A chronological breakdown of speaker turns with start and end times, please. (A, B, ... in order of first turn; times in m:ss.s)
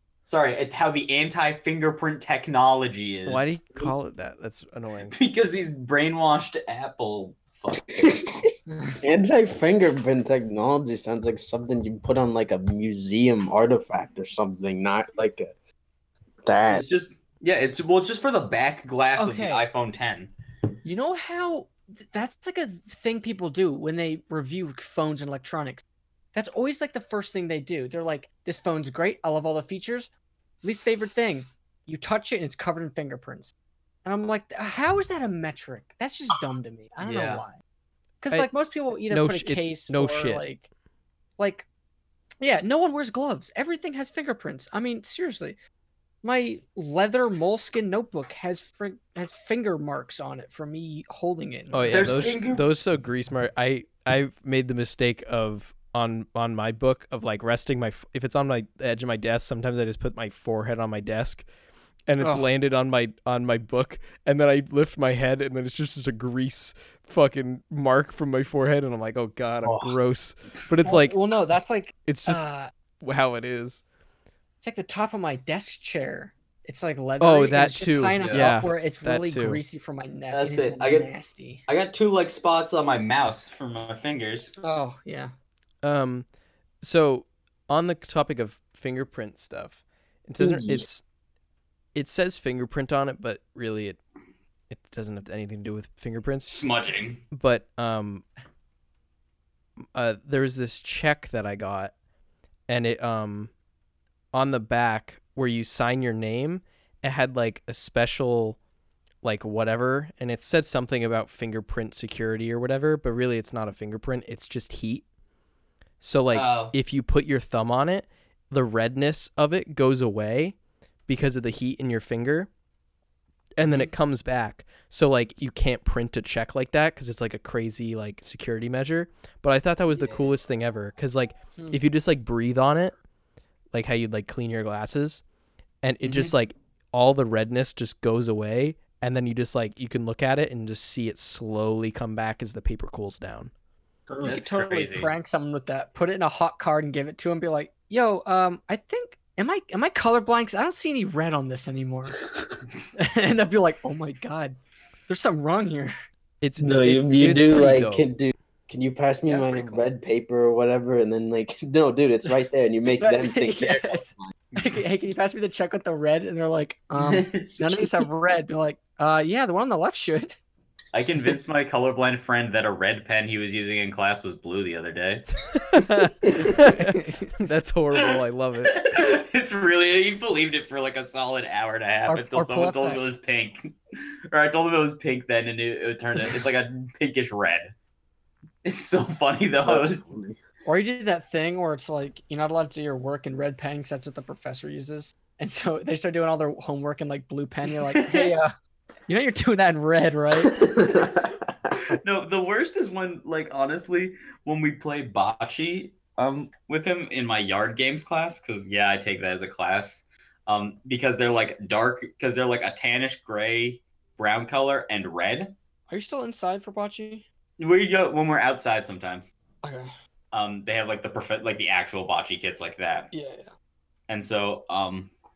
0:00.2-0:03.6 A
0:03.3-0:05.2 B
0:05.1-0:08.3 A
0:09.0-0:15.5 C
0:16.4-0:16.9 C
0:16.7-0:20.3 A
0:19.2-0:19.6 D
0:20.8-0:25.8 D
0:26.3-0:30.1 D
0:30.6-0:33.5 D
0:34.0-0:37.6 D
0:37.0-0:37.4 A
0:38.2-0:40.6 D
0:39.1-0:40.4 B
0:41.4-0:41.7 D
0:42.4-0:45.6 D
0:46.2-0:52.3 D
0:51.7-1:01.4 B
0:51.9-0:52.6 A
1:02.1-1:11.2 B
1:02.2-1:02.5 D
1:09.6-1:09.9 C
1:10.8-1:12.7 D
1:12.1-1:12.5 B
1:13.0-1:13.8 B
1:14.6-1:21.6 D
1:17.2-1:19.6 B
1:18.2-1:18.7 A
1:20.3-1:21.1 A
1:21.7-1:24.5 A
1:24.6-1:25.3 D
1:25.8-1:26.2 B
1:26.8-1:31.0 B
1:30.4-1:30.8 C
1:32.0-1:34.0 B
1:34.7-1:36.7 B
1:36.5-1:37.2 A
1:37.3-1:38.2 B
1:40.0-1:41.9 B
1:42.7-1:43.5 B
1:44.3-1:48.6 B
1:49.2-1:55.0 B
1:56.0-2:00.6 B
1:56.3-1:56.7 A
2:01.1-2:02.5 B
2:03.6-2:13.0 B
2:09.9-2:10.3 A
2:11.6-2:11.8 D
2:13.7-2:15.2 B
2:15.8-2:23.5 B
2:24.1-2:24.4 C
2:24.2-2:32.2 D
2:24.2-2:25.1 A
2:33.0-2:35.9 D
2:36.4-2:38.1 B
2:36.6-2:44.3 C
2:39.3-2:39.8 D
2:42.9-2:50.4 D
2:44.5-2:44.8 A
2:47.0-2:48.0 A
2:50.9-2:55.3 A
2:55.5-2:58.8 B
2:56.5-2:57.3 D
2:58.7-3:07.7 A
3:02.1-3:03.0 D
3:08.6-3:10.0 A
3:09.6-3:10.4 C
3:10.6-3:18.5 D
3:17.9-3:18.3 A
3:19.1-3:20.7 D
3:20.6-3:35.6 A
3:35.9-3:37.2 D
3:37.6-3:39.3 A
3:39.6-3:39.9 D
3:40.3-3:43.1 A
3:43.1-3:43.5 D
3:44.1-3:45.1 A